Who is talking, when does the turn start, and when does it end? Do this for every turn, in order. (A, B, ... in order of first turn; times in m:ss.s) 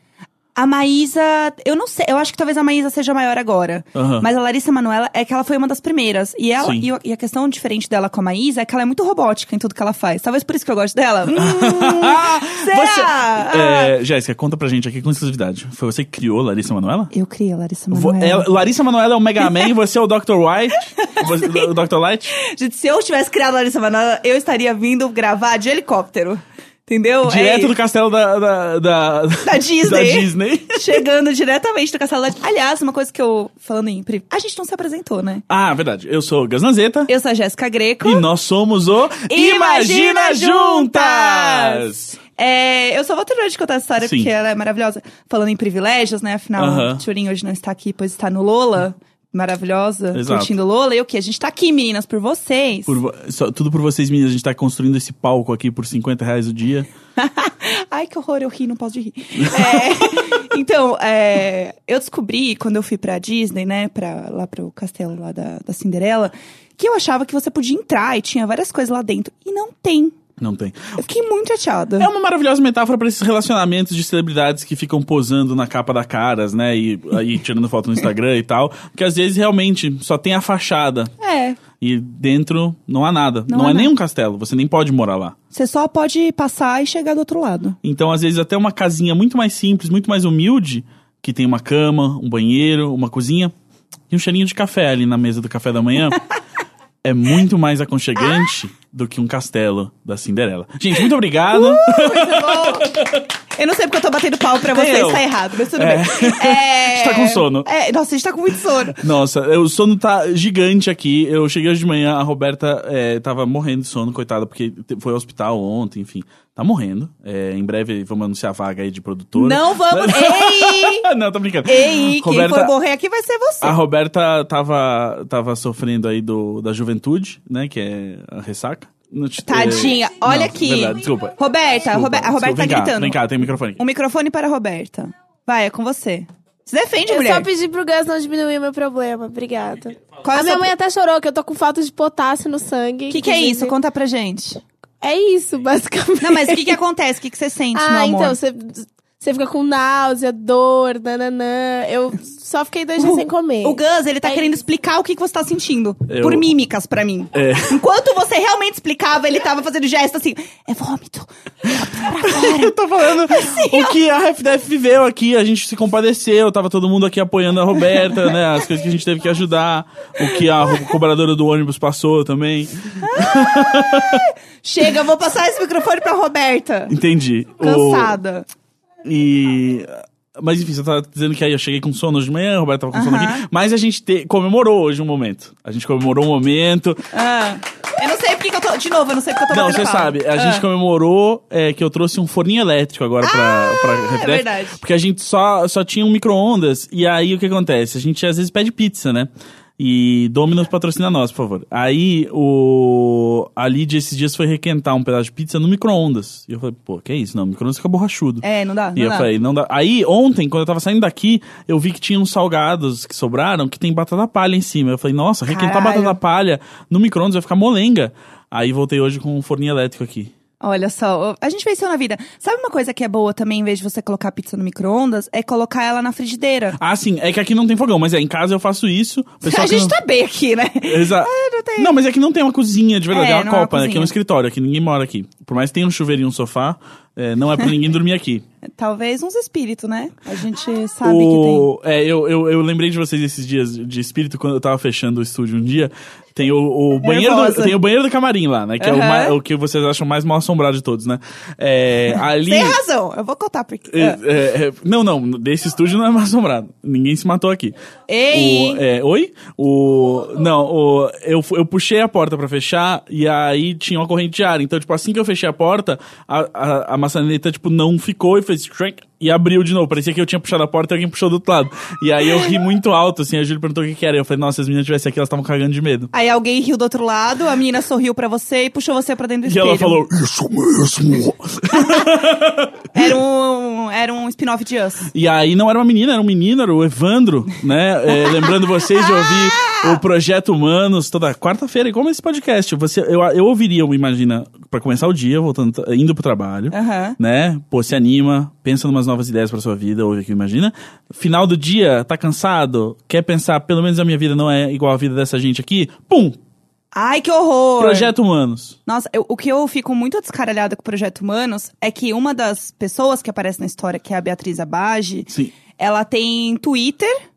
0:00.6-0:13.9 A
0:04.0-0:04.3 B
0:06.6-0:06.9 B
0:11.3-0:17.1 B
0:17.1-0:18.5 A
0:17.9-0:22.4 B
0:19.4-0:19.7 A
0:21.0-0:21.7 A
0:22.4-0:27.8 A
0:27.2-0:31.0 B
0:29.4-0:35.4 A
0:35.5-0:37.1 B
0:37.1-0:38.2 A
0:38.0-0:42.2 B
0:39.3-0:53.0 A
0:44.0-0:44.3 B
0:46.6-0:47.0 B
0:50.1-0:50.5 B
0:52.9-0:56.9 B
0:57.2-1:10.2 A
0:59.4-1:00.4 B
1:10.4-1:11.0 B
1:11.0-1:12.1 A
1:12.0-1:21.1 B
1:21.2-1:21.6 A
1:21.8-1:25.4 B
1:23.5-1:23.9 A
1:25.5-1:27.8 A
1:27.8-1:33.5 B
1:34.1-1:36.2 B
1:37.0-1:43.3 B
1:41.5-1:42.9 A
1:43.6-1:49.0 A
1:44.6-1:47.7 B
1:49.0-2:02.7 B
1:59.3-2:01.1 A
2:01.6-2:03.8 A
2:03.6-2:13.8 B
2:09.5-2:13.2 A
2:13.8-2:17.5 A
2:17.1-2:23.7 C
2:20.2-2:20.7 A
2:23.1-2:24.6 A
2:25.0-2:26.8 C
2:26.2-2:28.4 A
2:27.7-2:34.4 C
2:33.0-2:44.0 A
2:36.1-2:36.5 B
2:37.3-2:37.8 B
2:42.2-2:54.3 B
2:53.0-2:56.9 A
2:56.9-2:58.2 B
2:57.6-2:58.5 A
2:59.0-3:07.0 B
3:02.9-3:03.4 A
3:07.1-3:10.6 A
3:09.5-3:28.4 B
3:13.2-3:14.8 A
3:28.4-3:29.3 A
3:29.0-3:40.3 B
3:35.5-3:36.2 A
3:40.6-3:46.8 A
3:46.8-3:50.0 B
3:49.4-3:52.0 A
3:50.8-3:58.4 B
3:53.1-3:54.1 A
3:58.7-4:01.7 A
4:01.0-4:12.8 B
4:07.0-4:07.8 A
4:08.8-4:09.4 A
4:12.4-4:14.2 A
4:13.9-4:17.8 B
4:18.1-4:18.8 A
4:18.3-4:36.1 B
4:36.1-4:40.0 A
4:39.4-4:43.0 B
4:42.9-4:45.1 A
4:45.1-5:06.4 B
4:48.1-4:50.0 A
4:56.7-4:57.2 A
5:06.9-5:08.1 A
5:07.8-5:08.8 B
5:08.9-5:17.2 A